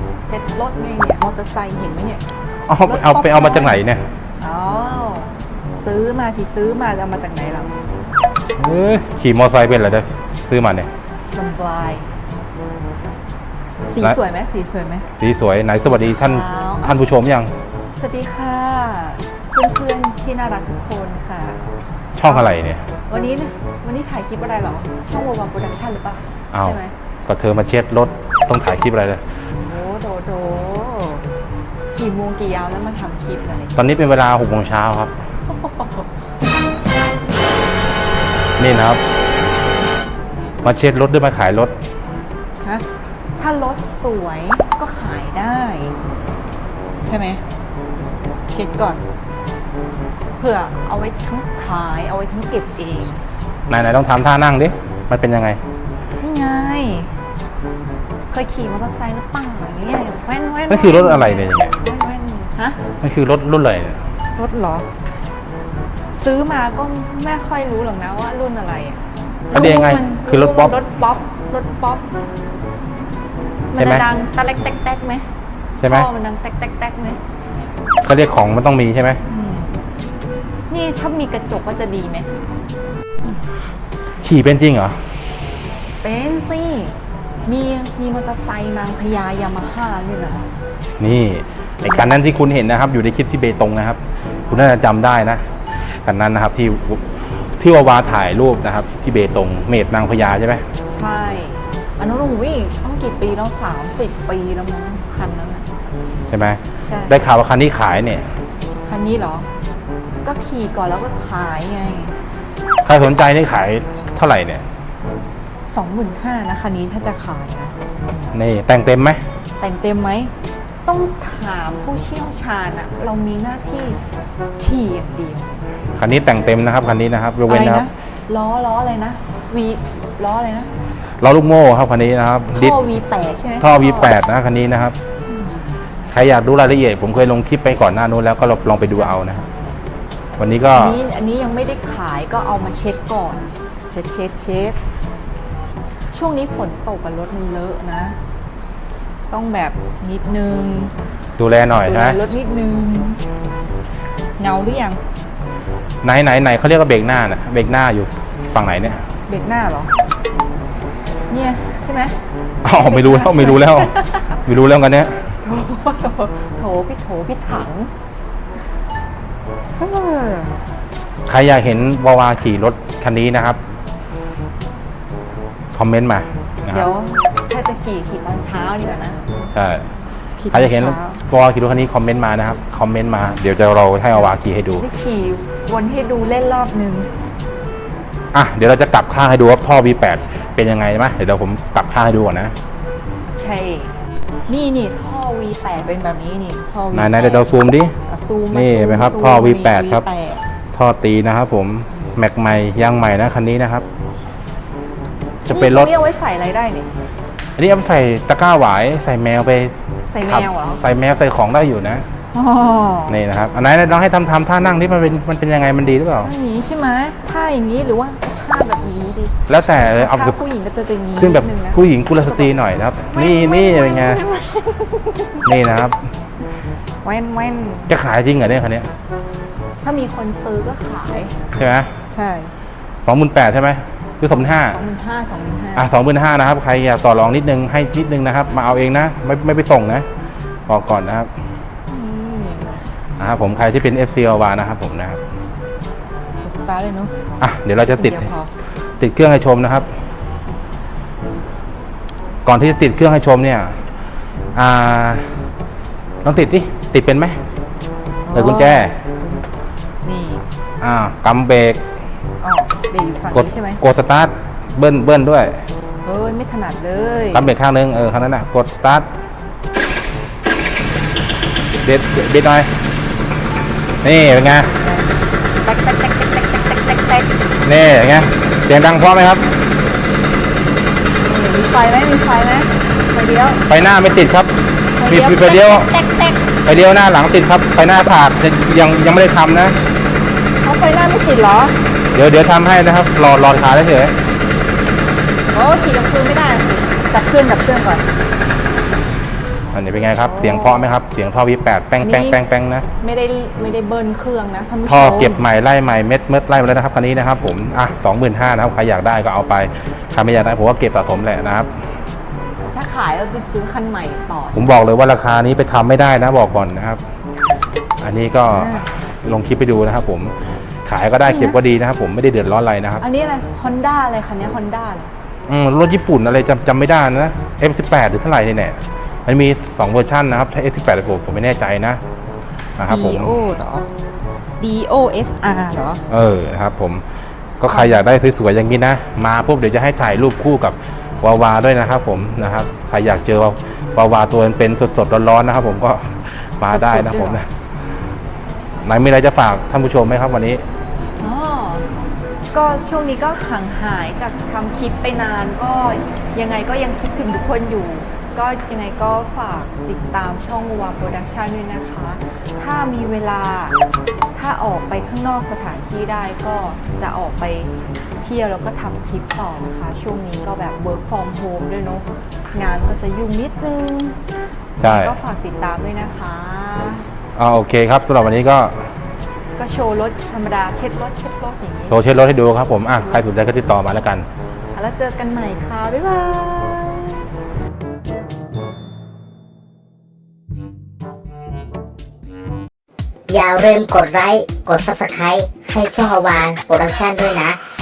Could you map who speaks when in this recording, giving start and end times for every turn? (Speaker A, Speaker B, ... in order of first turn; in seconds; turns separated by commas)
Speaker A: 0.2-2.2, Speaker B: 2.7-4.0, Speaker A: 2.8-3.8, Speaker A: 4.4-7.7, Speaker B: 8.6-10.9, Speaker A: 11.1-12.1, Speaker A: 13.9-15.1, Speaker B: 15.2-17.5, Speaker A: 15.8-17.0, Speaker A: 17.9-21.6, Speaker B: 22.1-22.8, Speaker A: 22.2-22.5, Speaker A: 23.1-26.9, Speaker B: 26.5-29.2, Speaker A: 29.6-31.2, Speaker A: 31.9-33.8, Speaker B: 33.7-35.1, Speaker A: 35.5-36.0, Speaker B: 38.6-39.0, Speaker B: 40.6-41.7, Speaker A: 43.4-45.9, Speaker A: 47.0-47.4, Speaker A: 48.5-49.0, Speaker A: 50.4-53.2, Speaker B: 53.7-55.6, Speaker A: 56.2-57.1, Speaker A: 58.3-62.9, Speaker B: 60.7-61.8, Speaker B: 63.0-64.0, Speaker A: 64.3-64.9, Speaker A: 66.1-72.2, Speaker B: 69.5-70.8, Speaker A: 73.7-75.2, Speaker B: 73.8-74.1, Speaker B: 75.8-76.1, Speaker A: 75.8-77.2, Speaker B: 78.0-79.2, Speaker A: 79.3-79.8, Speaker A: 80.7-82.3, Speaker B: 84.2-85.0, Speaker A: 86.0-86.9, Speaker A: 87.5-90.5, Speaker B: 91.0-95.4, Speaker A: 91.8-92.2, Speaker A: 94.5-94.8, Speaker B: 96.0-97.0, Speaker B: 97.6-100.6, Speaker A: 100.8-105.7, Speaker B: 106.3-108.3, Speaker A: 106.8-107.2, Speaker A: 108.8-109.5, Speaker A: 110.2-112.1, Speaker B: 112.8-114.6, Speaker A: 115.7-118.3, Speaker B: 118.3-119.2, Speaker A: 119.6-120.3, Speaker A: 120.8-124.0, Speaker A: 124.6-125.6, Speaker B: 126.0-127.9, Speaker A: 127.5-130.7, Speaker B: 131.2-132.8, Speaker A: 132.5-134.1, Speaker B: 133.6-134.9, Speaker A: 135.3-135.6, Speaker B: 136.1-139.4, Speaker B: 140.4-141.0, Speaker A: 140.7-144.8, Speaker A: 146.1-148.2, Speaker A: 149.3-150.9, Speaker B: 151.4-152.2, Speaker A: 151.8-153.2, Speaker A: 154.4-155.0, Speaker B: 156.0-159.0, Speaker A: 159.3-159.9, Speaker A: 161.3-164.3, Speaker B: 162.6-165.2, Speaker A: 165.4-167.9, Speaker A: 169.8-170.5, Speaker B: 171.3-173.6, Speaker B: 175.7-176.9, Speaker A: 176.7-179.2, Speaker B: 179.5-179.8, Speaker A: 180.4-181.2, Speaker B: 180.5-184.8, Speaker A: 184.1-187.1, Speaker B: 188.3-192.5, Speaker A: 193.2-193.9, Speaker A: 194.5-200.4, Speaker B: 196.9-197.9, Speaker B: 198.5-200.0, Speaker B: 200.7-203.8, Speaker B: 205.5-205.9, Speaker A: 205.5-206.9, Speaker B: 207.6-212.1, Speaker A: 210.1-210.8, Speaker A: 212.3-213.2, Speaker B: 213.1-216.3, Speaker A: 216.2-222.5, Speaker B: 219.5-220.4, Speaker B: 221.2-224.2, Speaker A: 223.1-225.4, Speaker B: 225.4-226.0, Speaker A: 227.0-227.9, Speaker B: 227.9-228.9, Speaker A: 229.8-231.4, Speaker B: 231.5-231.9, Speaker A: 232.0-232.5, Speaker B: 233.0-234.8, Speaker A: 234.3-235.9, Speaker B: 235.8-240.1, Speaker B: 240.7-241.3, Speaker A: 241.9-242.8, Speaker B: 243.2-245.2, Speaker A: 246.4-247.2, Speaker B: 247.4-248.3, Speaker A: 247.9-248.5, Speaker B: 249.0-249.9, Speaker B: 252.4-253.8, Speaker B: 254.5-255.4, Speaker B: 256.2-257.4, Speaker A: 258.3-259.5, Speaker B: 258.3-258.9, Speaker A: 260.0-260.4, Speaker B: 260.8-261.8, Speaker A: 262.4-263.8, Speaker B: 263.3-265.6, Speaker A: 266.0-267.5, Speaker B: 267.3-269.1, Speaker B: 271.8-272.7, Speaker B: 274.0-274.7, Speaker A: 274.8-275.1, Speaker A: 275.6-277.3, Speaker B: 277.6-279.4, Speaker A: 281.2-283.6, Speaker B: 283.7-284.5, Speaker A: 285.0-286.4, Speaker B: 285.0-285.9, Speaker B: 286.6-289.8, Speaker A: 290.6-291.8, Speaker B: 292.1-294.1, Speaker A: 295.5-298.1, Speaker B: 299.7-302.9, Speaker A: 300.2-300.9, Speaker A: 302.0-302.4, Speaker A: 303.0-305.4, Speaker B: 304.9-311.7, Speaker A: 312.6-314.8, Speaker B: 314.6-317.0, Speaker B: 318.0-320.3, Speaker A: 318.5-318.9, Speaker B: 320.8-323.0, Speaker A: 321.2-321.6, Speaker A: 323.0-325.1, Speaker B: 325.5-332.0, Speaker B: 332.8-333.4, Speaker A: 332.9-333.9, Speaker A: 334.6-336.0, Speaker B: 336.1-337.0, Speaker B: 337.6-347.5, Speaker A: 337.7-338.0, Speaker A: 346.6-347.4, Speaker B: 348.8-350.6, Speaker A: 351.2-363.8, Speaker A: 364.3-374.2, Speaker A: 374.8-377.1, Speaker B: 374.8-375.1, Speaker B: 377.4-378.9, Speaker A: 379.6-382.0, Speaker B: 381.9-384.3, Speaker A: 382.9-383.2, Speaker A: 384.7-387.3, Speaker C: 393.3-397.6